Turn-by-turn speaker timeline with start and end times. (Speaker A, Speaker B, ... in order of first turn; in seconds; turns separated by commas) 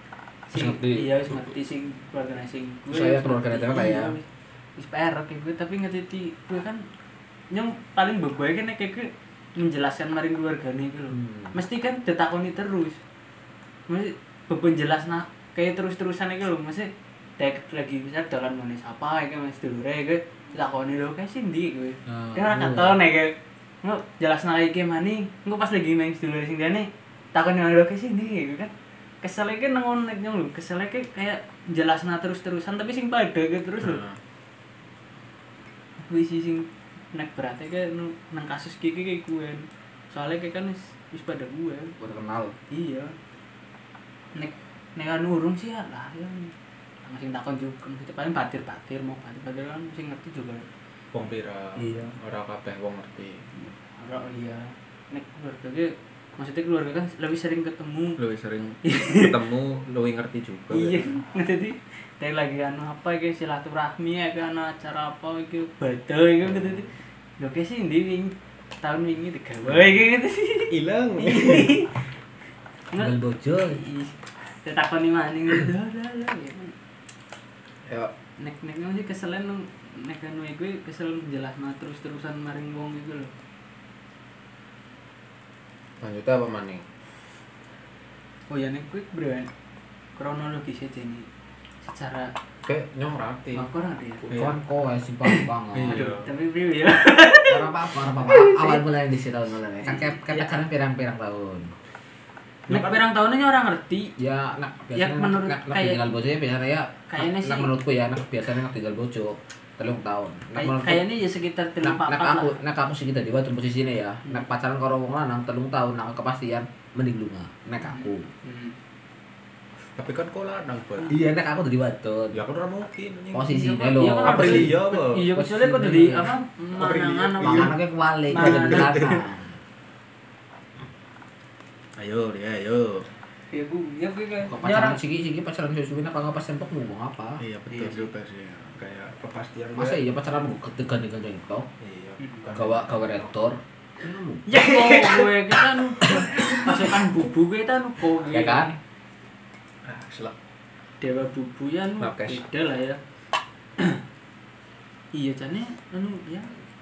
Speaker A: 0.5-6.8, Speaker B: 0.5-1.2, Speaker B: 2.9-4.1, Speaker A: 7.5-13.0, Speaker B: 11.1-11.6, Speaker A: 13.9-34.0, Speaker B: 22.1-23.0, Speaker C: 33.8-34.2, Speaker A: 36.0-41.9, Speaker B: 42.0-42.5, Speaker A: 42.7-43.1, Speaker A: 44.3-46.5, Speaker A: 47.0-50.7, Speaker C: 51.1-53.4, Speaker B: 51.8-52.1, Speaker A: 54.0-58.2, Speaker C: 58.2-61.1, Speaker A: 58.8-59.3, Speaker A: 60.7-72.0, Speaker C: 70.7-71.7, Speaker A: 72.9-76.7, Speaker B: 73.0-73.8, Speaker C: 77.9-78.1, Speaker A: 78.4-83.3, Speaker C: 86.0-86.8, Speaker A: 88.5-89.5, Speaker A: 90.2-91.3, Speaker A: 91.8-92.3, Speaker C: 92.6-93.7, Speaker A: 93.5-94.3, Speaker C: 94.3-94.5, Speaker B: 94.3-96.1, Speaker A: 95.3-98.8, Speaker C: 95.7-96.3, Speaker B: 97.5-101.7, Speaker A: 99.8-100.6, Speaker A: 102.7-104.1, Speaker C: 102.7-103.0, Speaker B: 104.2-111.0, Speaker A: 104.9-106.0, Speaker A: 107.1-107.7, Speaker A: 110.5-112.5, Speaker B: 111.8-118.3, Speaker A: 117.8-118.8, Speaker C: 120.0-121.2, Speaker B: 121.1-122.4, Speaker C: 122.3-123.5, Speaker B: 123.3-126.3, Speaker A: 123.5-127.7, Speaker C: 124.2-125.2, Speaker C: 126.8-127.7, Speaker B: 127.4-129.5, Speaker A: 128.3-129.2, Speaker C: 128.4-129.1, Speaker C: 132.0-133.1, Speaker A: 133.5-135.0, Speaker B: 134.5-137.4, Speaker C: 137.4-140.0, Speaker A: 137.7-138.1, Speaker B: 139.7-141.7, Speaker C: 141.8-142.9, Speaker A: 142.2-142.5, Speaker B: 142.5-144.6, Speaker A: 144.4-148.7, Speaker C: 144.6-145.3, Speaker B: 146.1-146.8, Speaker B: 148.3-148.7, Speaker C: 149.8-150.3, Speaker A: 151.0-153.0, Speaker C: 152.0-152.4, Speaker A: 155.1-156.5